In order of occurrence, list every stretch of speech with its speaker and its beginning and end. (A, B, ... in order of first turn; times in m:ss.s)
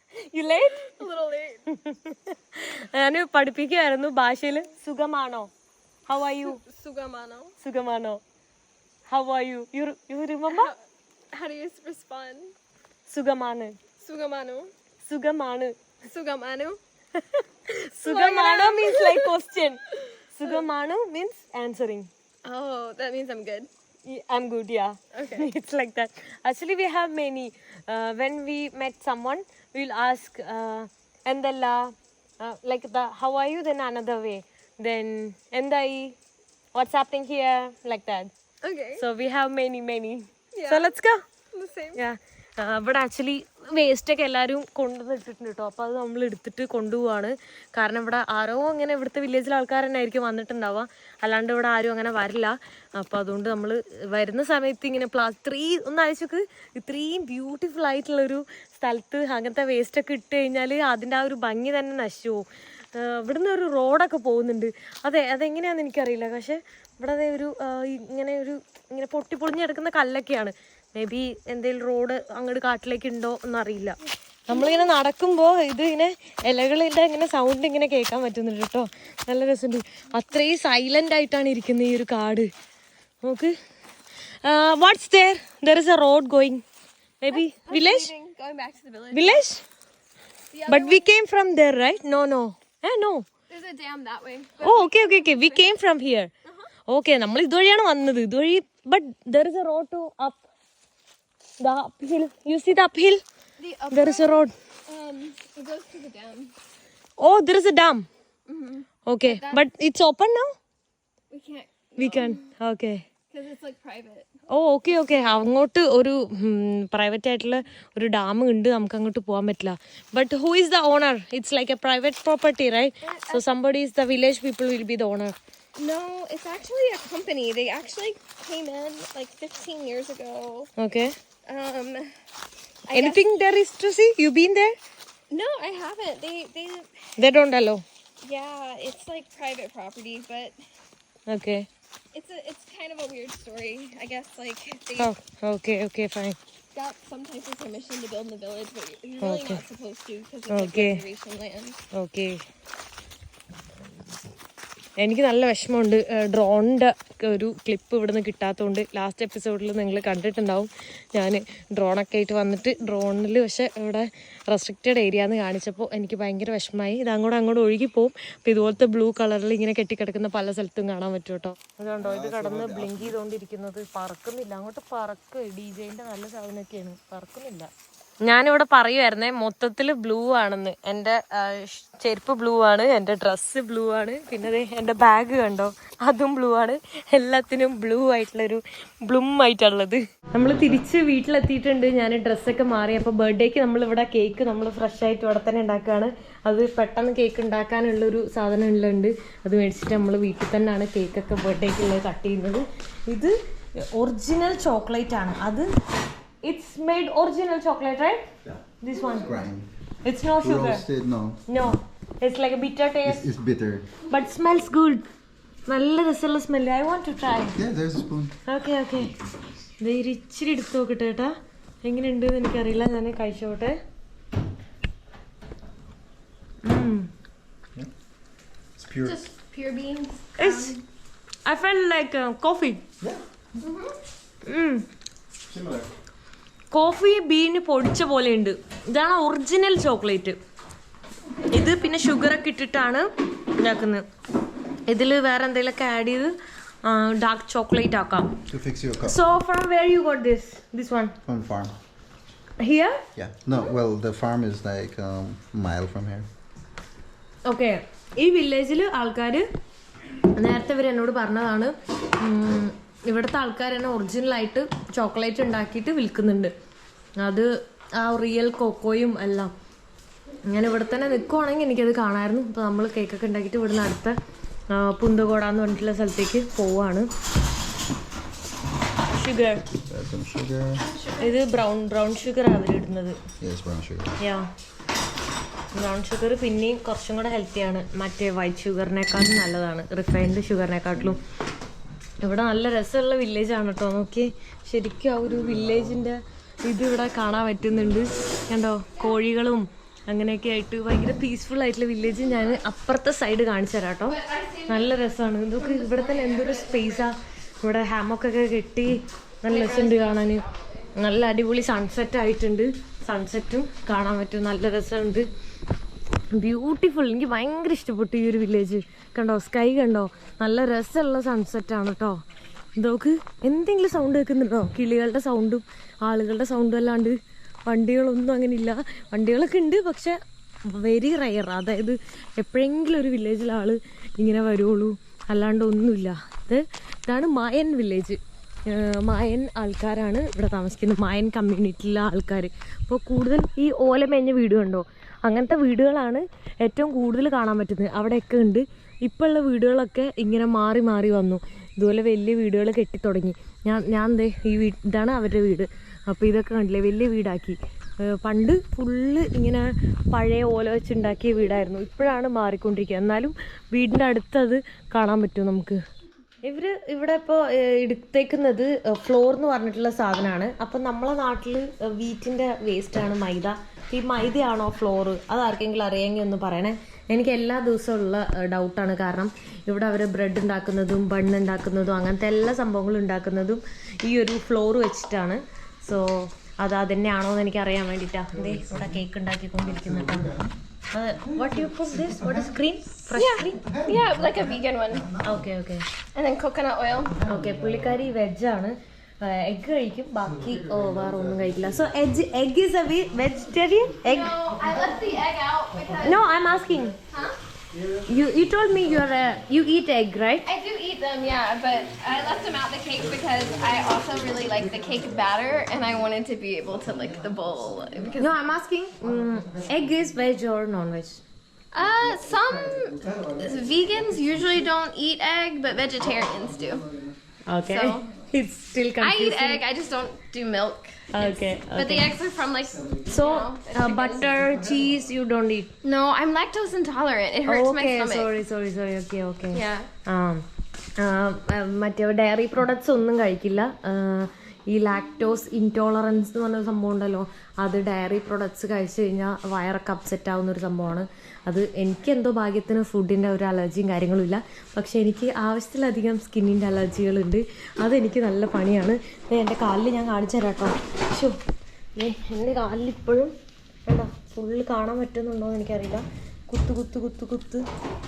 0:00.3-0:01.0 A
0:00.6-0:01.7 B
0:01.7-0:05.5 A
0:06.1-0:06.6 A
0:06.4-0:07.5 B
0:07.6-0:08.2 A
0:09.1-0:10.7 A
0:10.5-0:10.8 B
0:11.3-0:12.5 B
0:13.1-0:13.8 A
0:14.0-0:14.7 B
0:15.1-0:15.8 A
0:16.1-0:16.8 B
0:17.2-0:22.1 A
0:18.0-0:19.3 B
0:19.9-0:20.6 B
0:22.4-0:23.7 B
0:24.1-0:36.2 A
0:25.2-0:25.5 B
0:36.8-0:38.3 A
0:38.6-0:39.0 B
0:39.0-0:41.2 A
0:40.6-0:41.0 B
0:41.5-0:42.0 B
0:42.0-1:22.5 A
1:23.2-1:23.6 A
1:24.4-1:26.6 A
1:27.2-1:28.1 A
1:27.3-1:29.4 B
1:29.1-1:29.6 A
1:30.5-1:31.1 B
1:30.7-1:33.3 A
1:33.5-1:35.7 B
1:34.6-1:36.3 A
1:36.9-1:40.4 A
1:41.6-1:43.2 A
1:43.6-1:46.5 B
1:43.9-1:44.5 A
1:47.2-1:48.1 A
1:48.5-1:49.6 B
1:49.1-1:50.5 A
1:51.3-1:52.5 B
1:52.0-1:53.1 A
1:53.3-1:54.3 B
1:54.5-2:05.4 A
2:03.1-2:03.4 B
2:05.8-2:10.7 B
2:10.8-2:11.2 A
2:11.5-2:12.2 B
2:12.9-2:13.2 B
2:12.9-2:14.8 A
2:15.3-2:17.1 B
2:17.2-2:17.8 A
2:18.2-2:20.6 B
2:21.3-2:21.7 A
2:22.1-2:25.1 B
2:25.0-2:26.4 A
2:26.7-2:31.8 B
2:29.2-2:29.6 A
2:30.5-2:31.0 A
2:31.9-2:32.4 A
2:35.0-2:57.7 A
2:52.0-2:53.2 C
2:58.2-3:25.7 A
3:26.4-3:28.3 A
3:28.8-3:29.3 A
3:29.2-3:29.7 C
3:30.0-3:30.8 A
3:30.4-3:31.8 C
3:31.5-3:33.3 A
3:33.0-3:33.9 C
3:34.1-3:35.1 A
3:35.7-3:37.6 A
3:37.6-3:38.4 C
3:38.5-3:39.2 A
3:39.8-3:43.8 A
3:46.6-3:47.1 A
3:48.8-3:49.2 C
3:49.0-3:50.8 B
3:50.4-3:50.7 A
3:51.4-3:52.8 A
3:53.6-3:53.9 B
3:54.5-3:54.8 A
3:55.5-3:55.9 C
3:56.7-4:00.4 A
4:01.5-4:04.1 A
4:04.9-4:08.4 A
4:08.5-4:09.2 C
4:09.0-4:11.2 A
4:11.2-4:11.8 C
4:12.6-4:13.0 A
4:13.2-4:16.3 C
4:17.5-4:19.5 A
4:20.2-4:26.5 A
4:27.2-4:29.5 A
4:30.5-4:34.2 A
4:34.7-4:37.1 A
4:39.1-4:39.7 A
4:39.8-4:40.9 C
4:40.9-4:41.2 B
4:41.2-4:43.2 A
4:43.4-4:44.2 C
4:44.2-4:44.5 A
4:45.8-4:51.2 A
4:52.2-5:10.4 A
5:04.2-5:04.9 B
5:05.6-5:07.1 B
5:09.5-5:10.4 B
5:11.0-5:15.3 A
5:16.3-5:22.2 A
5:22.8-6:05.8 A
6:06.4-6:30.3 A
6:28.5-6:28.8 C
6:29.7-6:30.5 C
6:30.9-6:33.6 A
6:33.2-6:35.1 B
6:33.6-6:34.1 C
6:35.2-6:35.9 A
6:36.1-6:37.2 B
6:37.2-6:44.4 A
6:40.6-6:41.8 C
6:44.1-6:46.2 B
6:46.0-6:47.0 A
6:47.1-6:47.4 B
6:48.1-6:50.5 A
6:50.4-6:58.4 B
6:52.8-6:55.9 C
6:56.9-6:58.2 C
6:58.2-7:01.2 A
7:01.7-7:06.8 B
7:02.0-7:04.7 C
7:06.2-7:07.1 C
7:07.5-7:09.6 A
7:07.7-7:08.1 B
7:09.0-7:14.6 B
7:11.1-7:12.1 A
7:13.1-7:15.7 A
7:15.8-7:18.3 B
7:17.5-7:20.4 A
7:19.5-7:19.9 B
7:21.0-7:41.4 A
7:42.0-7:43.3 A
7:43.9-7:47.6 A